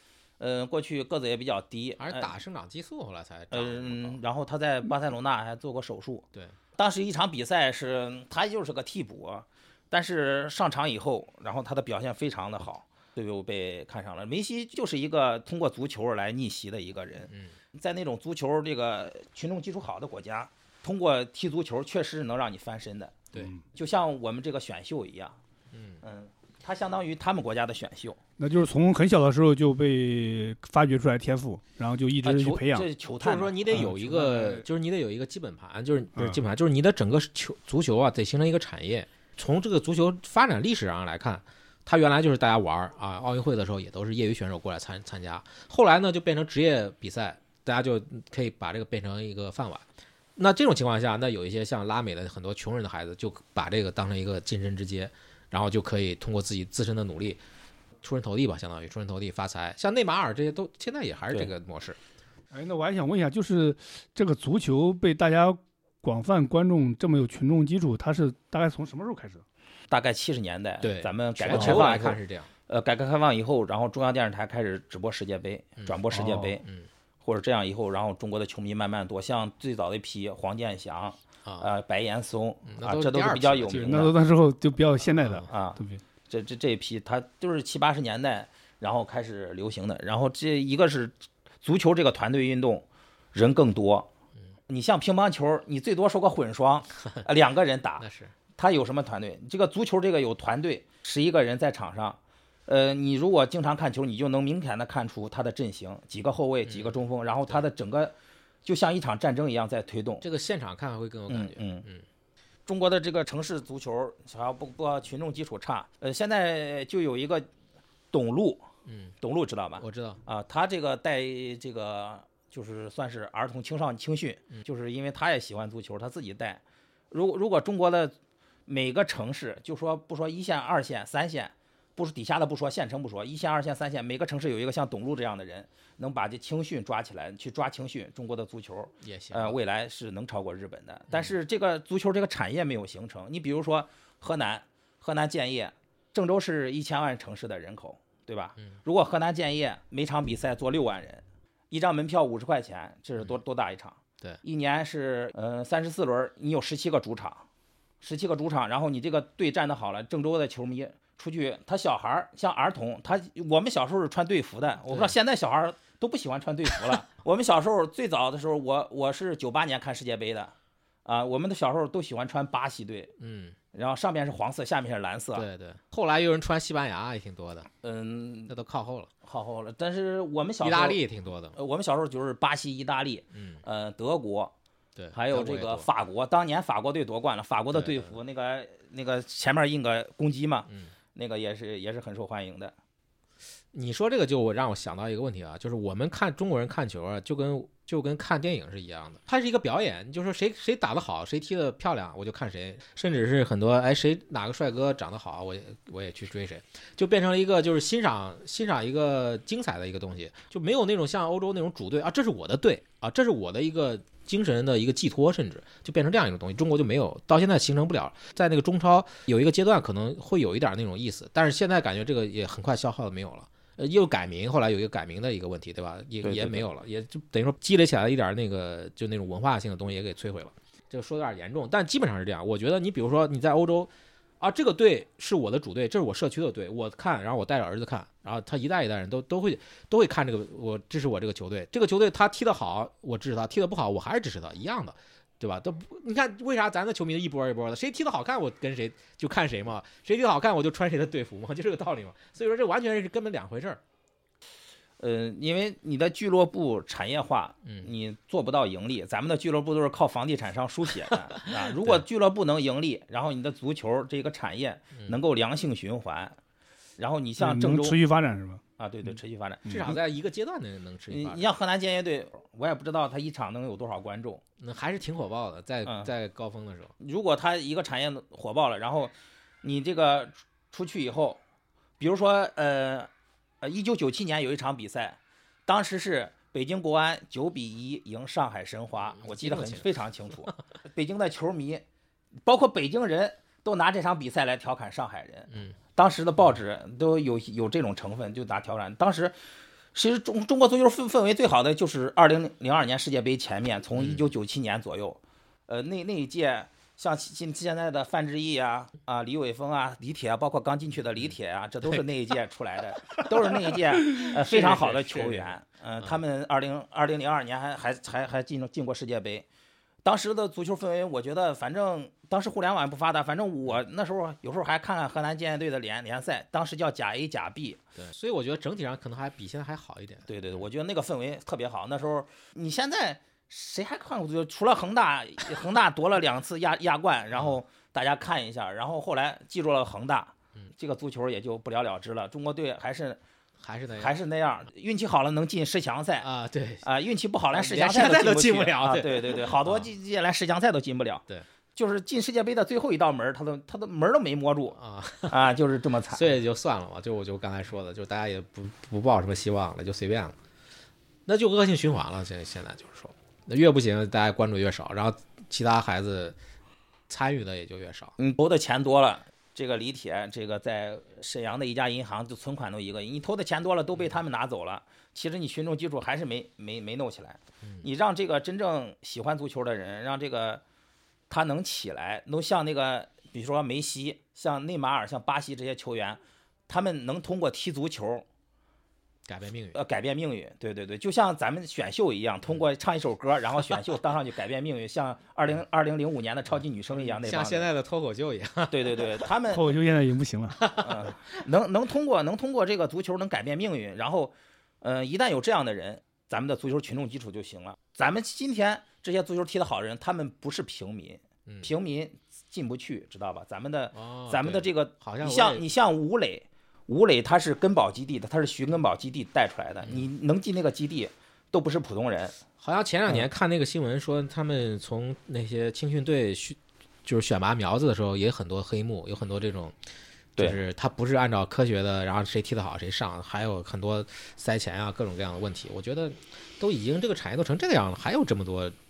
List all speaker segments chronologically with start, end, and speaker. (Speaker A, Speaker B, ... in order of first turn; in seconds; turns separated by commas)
Speaker A: 0.4-2.3, Speaker B: 2.0-4.2, Speaker A: 3.5-6.2, Speaker A: 6.8-23.1, Speaker C: 23.4-23.6, Speaker A: 23.7-25.4, Speaker B: 25.7-26.0, Speaker A: 26.0-28.2, Speaker C: 28.4-32.9, Speaker A: 32.2-33.9, Speaker B: 33.2-49.8, Speaker C: 33.7-34.6, Speaker B: 50.4-57.4, Speaker B: 58.0-62.0, Speaker C: 62.5-69.4, Speaker A: 69.9-76.6, Speaker B: 70.8-72.5, Speaker C: 71.5-71.8, Speaker C: 76.1-76.5, Speaker A: 77.2-84.1, Speaker B: 82.7-84.1, Speaker C: 83.7-86.0, Speaker B: 85.2-85.5, Speaker A: 85.5-94.1, Speaker A: 94.7-98.0, Speaker B: 98.0-98.3, Speaker A: 98.6-108.1, Speaker B: 106.7-107.0, Speaker A: 108.6-110.2, Speaker B: 110.2-112.0, Speaker A: 111.3-111.8, Speaker A: 112.7-117.5, Speaker A: 118.1-118.6, Speaker B: 118.8-119.1, Speaker A: 119.2-128.1, Speaker B: 119.8-120.2, Speaker A: 128.7-157.4, Speaker B: 139.0-139.6, Speaker A: 158.0-170.5, Speaker B: 164.9-165.1, Speaker A: 171.0-173.1, Speaker B: 173.2-173.6, Speaker A: 173.7-175.4, Speaker B: 175.3-177.7, Speaker A: 177.8-178.5, Speaker B: 178.5-179.1, Speaker A: 179.2-181.0, Speaker B: 180.6-181.6, Speaker A: 181.5-184.5, Speaker B: 183.3-183.6, Speaker B: 184.9-185.9, Speaker A: 185.1-192.7, Speaker B: 187.7-188.2, Speaker B: 193.7-253.8, Speaker A: 226.2-226.7, Speaker A: 255.0-266.4, Speaker B: 261.4-262.0, Speaker A: 267.0-268.0, Speaker C: 267.4-268.6, Speaker A: 268.8-270.0, Speaker B: 269.7-271.5, Speaker A: 271.1-274.4, Speaker B: 274.6-276.9, Speaker A: 275.8-276.1, Speaker A: 277.0-281.4, Speaker A: 282.0-283.1, Speaker A: 283.6-291.8, Speaker B: 289.1-289.9, Speaker A: 292.4-299.4, Speaker A: 299.9-319.4, Speaker B: 303.9-304.3, Speaker B: 313.1-315.5, Speaker A: 320.0-327.8, Speaker B: 327.9-330.3, Speaker A: 330.3-343.2, Speaker B: 343.6-344.1, Speaker A: 343.9-346.3, Speaker B: 346.2-346.9, Speaker A: 346.8-356.3, Speaker B: 347.5-349.9, Speaker B: 354.8-355.4, Speaker B: 356.1-360.4, Speaker B: 361.2-366.4, Speaker B: 367.1-368.1, Speaker A: 368.2-380.6, Speaker A: 381.3-388.2, Speaker B: 389.3-389.8, Speaker A: 389.7-397.7, Speaker B: 397.0-399.0, Speaker A: 398.7-399.7, Speaker C: 399.5-400.6, Speaker B: 400.6-401.1, Speaker A: 400.8-422.4, Speaker B: 413.9-415.6, Speaker B: 422.6-429.8, Speaker B: 430.4-438.7